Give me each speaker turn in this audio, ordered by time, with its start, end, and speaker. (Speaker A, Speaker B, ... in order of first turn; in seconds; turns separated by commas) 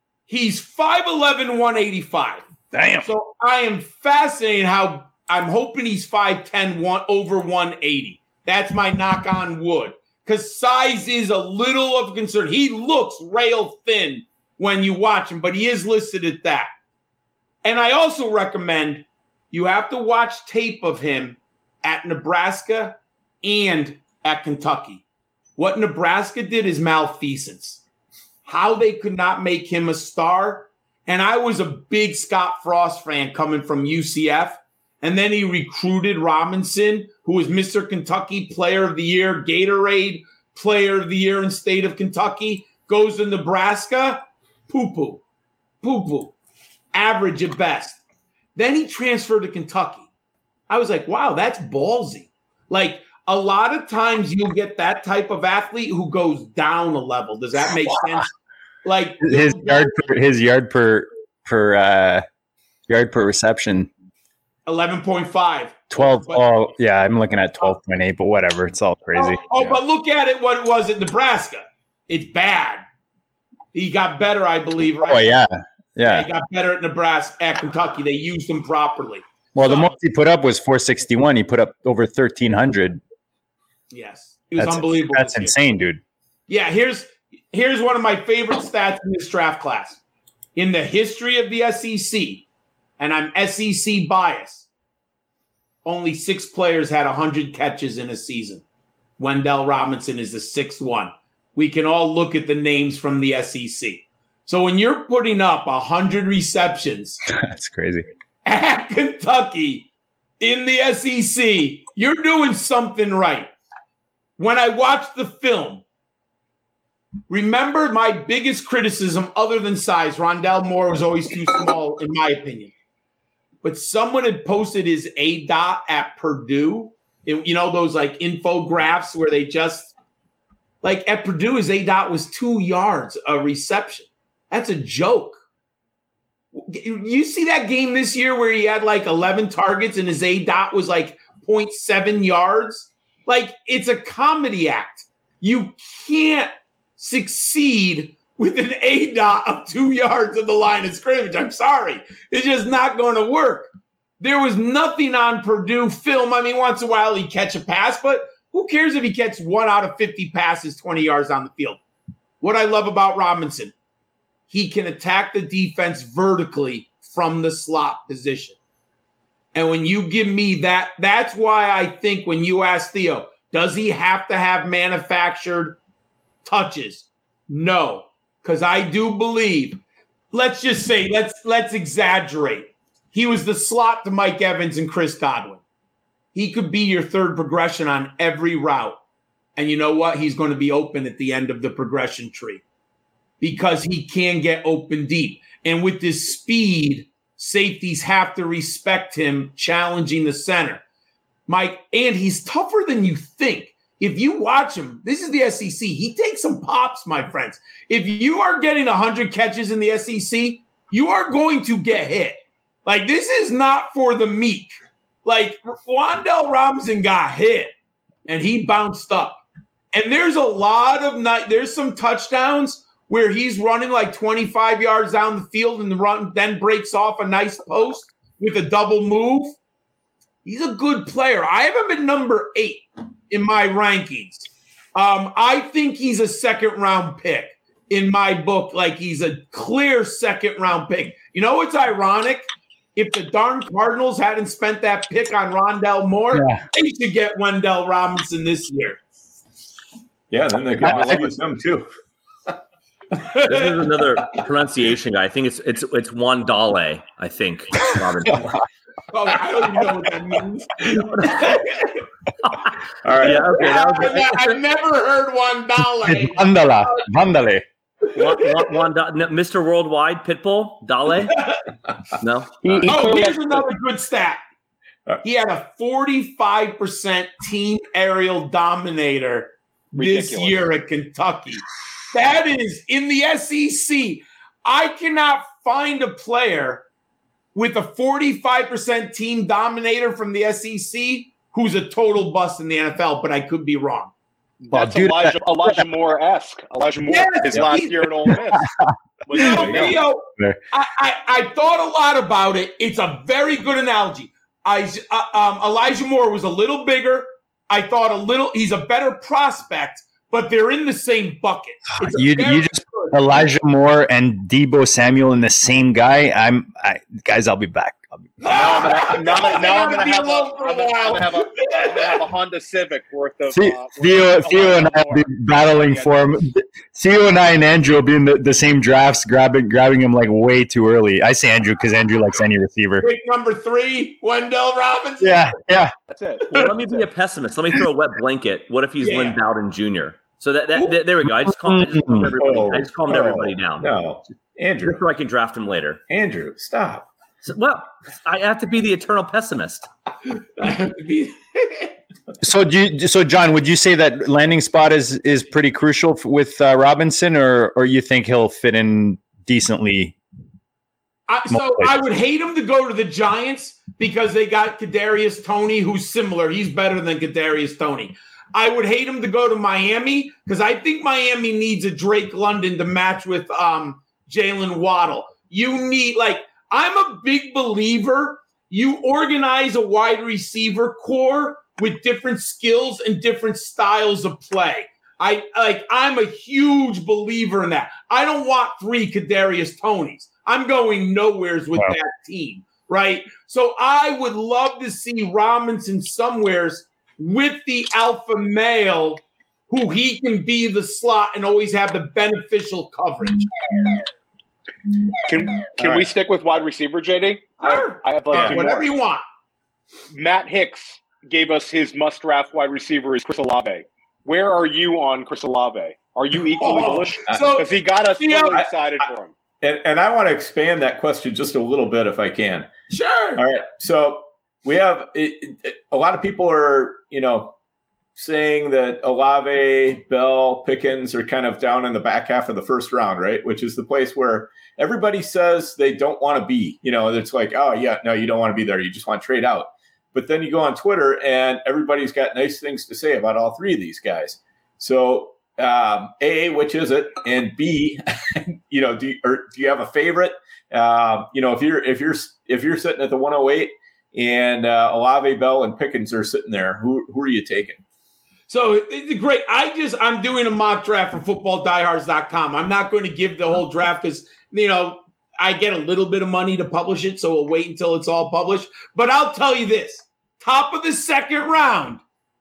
Speaker A: 0.3-2.4, Speaker B: 2.7-3.1, Speaker A: 3.0-16.7, Speaker A: 17.6-25.0, Speaker A: 25.6-27.8, Speaker A: 28.4-45.2, Speaker A: 45.8-46.4, Speaker A: 46.9-48.0, Speaker A: 48.6-50.1, Speaker A: 50.7-58.3, Speaker A: 58.8-60.0, Speaker B: 59.2-62.2, Speaker B: 62.9-63.9, Speaker A: 64.7-66.5, Speaker B: 65.9-69.8, Speaker A: 69.1-72.8, Speaker A: 73.7-75.4, Speaker B: 75.0-76.3, Speaker A: 76.0-79.9, Speaker B: 79.5-83.0, Speaker A: 83.9-85.5, Speaker B: 84.6-86.0, Speaker A: 86.5-90.0, Speaker A: 90.6-92.5, Speaker A: 93.0-94.7, Speaker A: 95.8-98.6, Speaker A: 99.2-107.2, Speaker B: 107.3-108.1, Speaker A: 108.5-109.9, Speaker A: 110.4-113.5, Speaker A: 114.4-115.8, Speaker A: 117.3-122.7, Speaker A: 123.6-129.9, Speaker A: 130.8-135.4, Speaker A: 136.5-153.7, Speaker A: 154.2-161.8, Speaker A: 162.4-163.7, Speaker A: 164.5-168.6, Speaker A: 169.5-175.8, Speaker A: 176.4-179.8, Speaker A: 180.3-185.6, Speaker A: 186.3-189.0, Speaker A: 189.6-192.6, Speaker A: 193.4-200.8, Speaker A: 201.5-214.7, Speaker A: 215.2-217.7, Speaker A: 218.3-219.4, Speaker A: 219.9-229.6, Speaker A: 230.4-242.4, Speaker A: 243.0-249.0, Speaker B: 246.3-246.6, Speaker C: 250.3-251.9, Speaker B: 250.8-251.2, Speaker A: 253.2-253.7, Speaker D: 253.4-258.6, Speaker A: 259.1-262.0, Speaker D: 260.9-261.6, Speaker D: 262.6-264.6, Speaker C: 263.0-263.6, Speaker A: 263.2-266.5, Speaker B: 266.0-267.6, Speaker D: 268.1-271.6, Speaker A: 271.3-271.6, Speaker D: 272.2-273.0, Speaker E: 272.6-273.6, Speaker A: 272.9-274.4, Speaker A: 275.2-286.8, Speaker E: 280.0-280.6, Speaker A: 287.6-294.1, Speaker E: 294.6-298.7, Speaker B: 294.7-295.8, Speaker A: 297.1-298.1, Speaker B: 298.6-298.9, Speaker E: 299.2-300.0, Speaker A: 299.3-313.3, Speaker C: 299.5-299.9, Speaker B: 312.0-318.3, Speaker A: 318.4-322.2, Speaker E: 318.5-326.1, Speaker B: 323.5-333.1, Speaker A: 333.0-335.6, Speaker B: 335.2-335.9, Speaker E: 336.1-337.0, Speaker D: 336.5-343.9, Speaker A: 339.0-339.4, Speaker B: 341.4-342.3, Speaker C: 342.3-345.0, Speaker D: 344.9-346.0, Speaker C: 346.1-347.1, Speaker D: 347.4-349.9, Speaker A: 350.4-351.9, Speaker B: 352.4-360.2, Speaker A: 361.3-403.5, Speaker B: 361.5-361.9, Speaker E: 405.3-408.9, Speaker C: 405.8-406.1, Speaker A: 407.6-409.2, Speaker E: 410.1-419.3, Speaker A: 416.6-418.6, Speaker C: 417.3-417.6, Speaker C: 419.6-422.7, Speaker A: 422.9-423.4, Speaker C: 423.4-427.6, Speaker C: 428.2-457.8, Speaker A: 458.5-472.0